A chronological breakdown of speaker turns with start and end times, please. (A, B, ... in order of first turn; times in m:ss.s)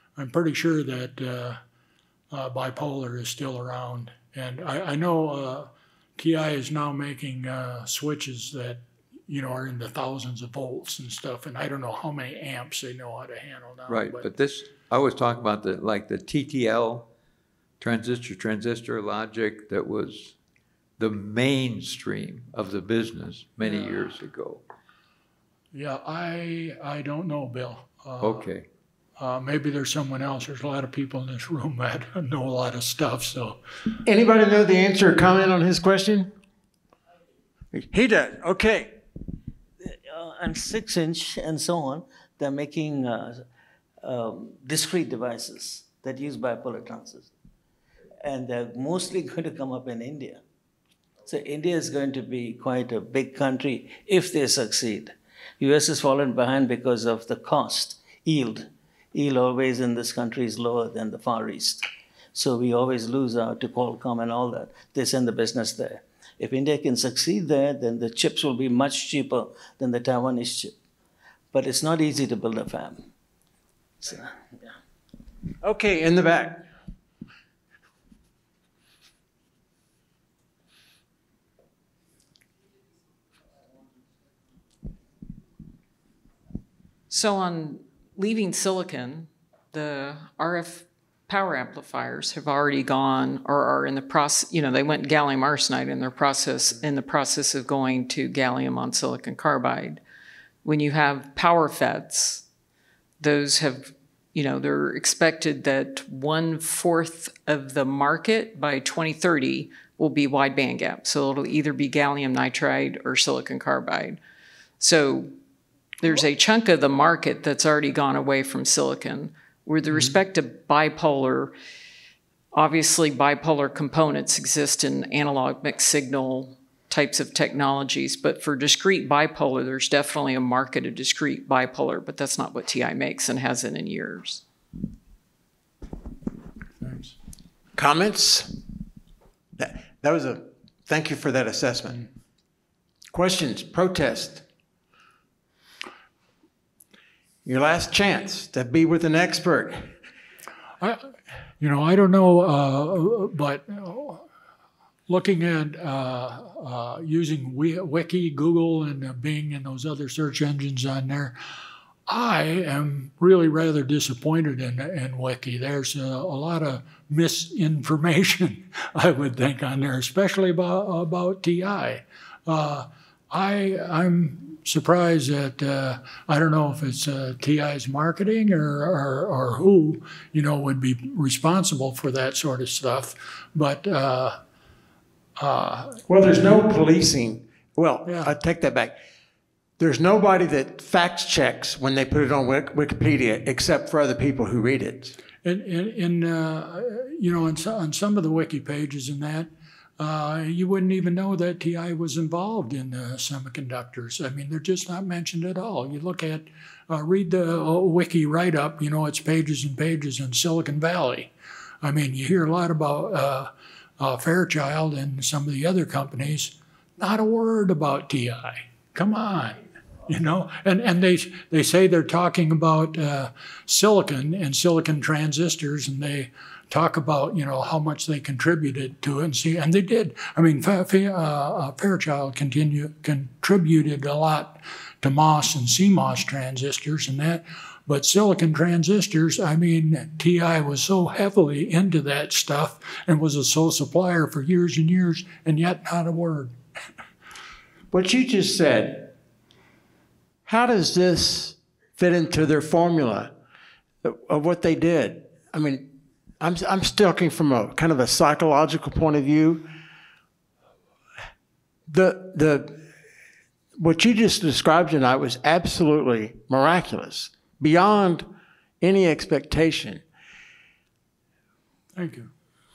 0:00.2-0:01.6 A
0:02.3-0:14.3 A
0:13.9-0:17.1 B
0:17.8-0:20.4 B
0:21.0-0:24.6 B
0:25.7-0:28.5 A
0:28.2-0:28.7 B
0:29.2-0:33.6 A
0:34.0-0:36.3 C
0:37.7-0:39.0 C
0:39.8-0:43.4 D
0:44.0-0:47.3 D
0:48.2-0:50.4 D
0:51.2-1:10.8 D
1:11.5-1:13.0 D
1:14.0-1:14.4 D
1:15.6-1:16.7 C
1:27.1-1:40.0 E
1:40.6-1:42.4 E
1:43.2-1:54.2 E
1:54.8-1:55.3 E
1:56.0-2:01.5 E
2:02.5-2:14.4 E
2:16.8-2:17.1 A
2:17.8-2:18.6 C
2:19.6-2:22.0 C
2:23.1-2:24.4 C
2:27.4-2:29.9 C
2:30.8-2:34.3 A
2:35.1-2:41.4 A
2:42.1-3:04.4 A
3:05.4-3:06.0 A
3:06.1-3:09.0 C
3:08.0-3:08.3 A
3:09.8-3:15.2 C
3:15.4-4:06.6 A
4:07.9-4:09.1 C
4:10.5-4:13.3 C
4:14.0-4:19.7 C
4:21.9-4:22.8 C
4:23.8-4:28.3 C
4:28.8-4:30.0 C
4:32.0-4:32.3 A